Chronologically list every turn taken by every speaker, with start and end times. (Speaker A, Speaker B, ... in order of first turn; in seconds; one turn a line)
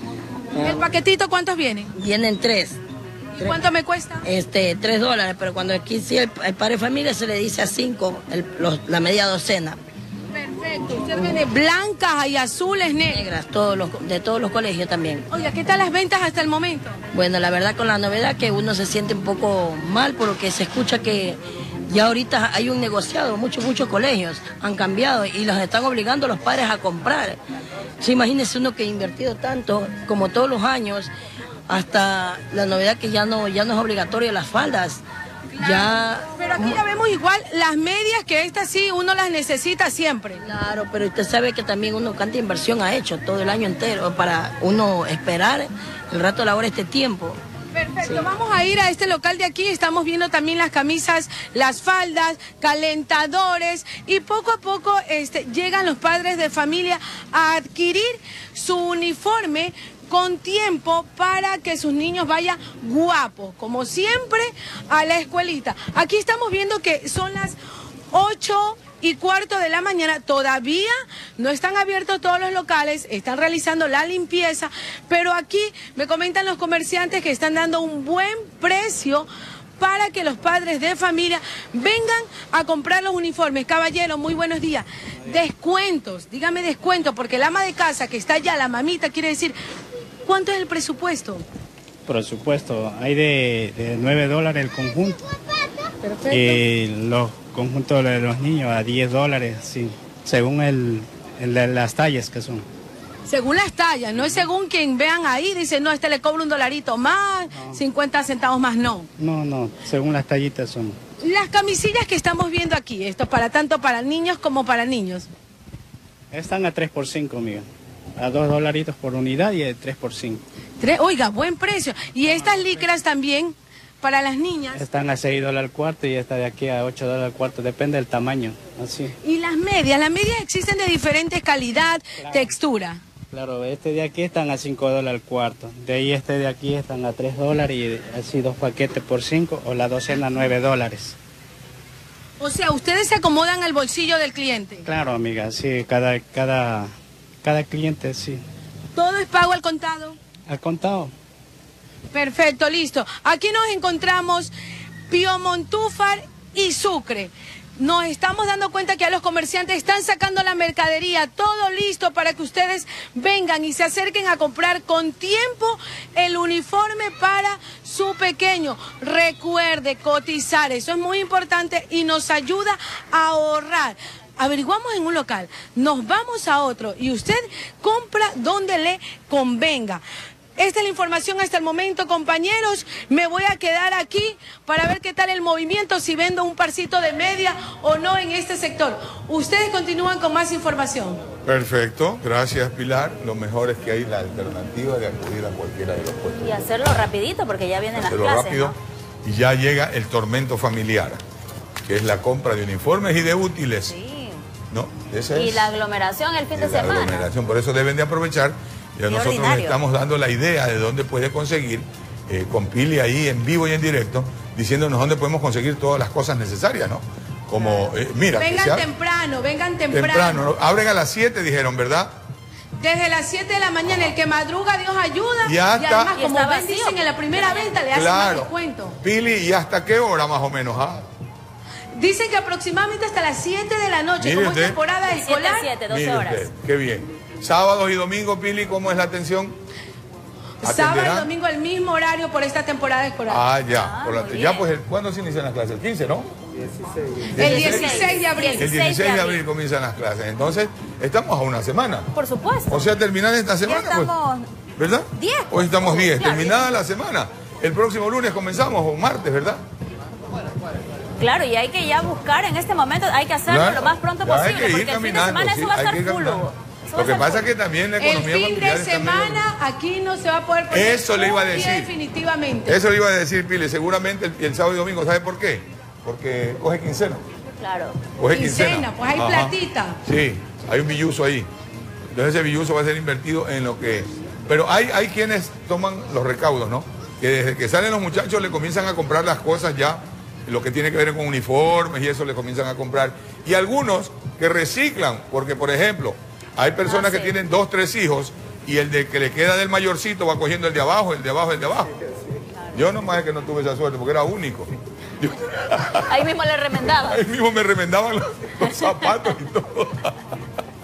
Speaker A: 0.5-0.9
Speaker B: 0.6-1.9
Speaker A: 1.9-2.8
Speaker B: 3.3-4.2
Speaker A: 4.2-9.8
Speaker B: 10.3-13.2
Speaker A: 13.1-15.3
Speaker B: 15.3-17.0
Speaker A: 17.1-27.4
Speaker A: 28.0-31.1
Speaker A: 31.7-35.0
Speaker B: 35.5-40.4
Speaker A: 35.6-36.8
Speaker A: 40.4-47.4
Speaker B: 47.7-67.6
Speaker B: 68.1-89.5
Speaker B: 90.2-91.4
Speaker C: 92.0-95.2
Speaker B: 96.0-96.6
Speaker C: 96.3-102.7
Speaker B: 103.2-109.1
Speaker C: 107.5-107.8
Speaker C: 109.2-111.0
Speaker B: 111.2-115.3
Speaker C: 116.3-120.4
Speaker B: 120.8-124.8
Speaker C: 122.2-122.8
Speaker C: 124.7-129.2
Speaker B: 129.2-133.0
Speaker C: 132.2-132.5
Speaker C: 133.3-141.2
Speaker B: 142.4-144.9
Speaker C: 144.8-146.9
Speaker C: 147.4-148.4
Speaker B: 148.9-150.2
Speaker C: 150.5-151.1
Speaker B: 152.1-154.5
Speaker B: 155.1-180.0
Speaker B: 180.6-191.2
Speaker D: 191.4-196.7
Speaker E: 196.3-198.8
Speaker D: 197.9-201.2
Speaker D: 201.8-203.9
Speaker E: 203.9-204.4
Speaker D: 204.7-205.7
Speaker E: 205.3-207.3
Speaker D: 206.5-218.9
Speaker E: 209.1-209.8
Speaker B: 218.3-220.5
Speaker D: 219.9-222.1
Speaker B: 222.8-228.9
Speaker D: 225.4-226.1
Speaker E: 226.1-227.7
Speaker D: 227.9-231.0
Speaker B: 231.9-235.7
Speaker D: 234.2-234.8
Speaker E: 235.0-236.5
Speaker D: 235.9-239.6
Speaker B: 240.6-243.4
Speaker D: 240.6-241.3
Speaker D: 243.3-246.3
Speaker E: 243.7-244.7
Speaker D: 247.3-252.1
Speaker B: 247.3-248.7
Speaker E: 247.4-249.4
Speaker E: 252.1-252.8
Speaker D: 252.7-254.1
Speaker E: 253.6-254.5
Speaker D: 254.8-259.6
Speaker E: 255.2-256.7
Speaker E: 261.2-267.5
Speaker D: 263.4-269.5
Speaker B: 268.0-272.8
Speaker D: 270.7-271.9
Speaker D: 272.6-277.2
Speaker E: 277.6-278.0
Speaker D: 278.1-281.5
Speaker B: 278.3-280.0
Speaker D: 282.1-301.9
Speaker E: 296.9-297.4
Speaker D: 302.7-306.2
Speaker E: 306.1-307.2
Speaker D: 306.9-310.2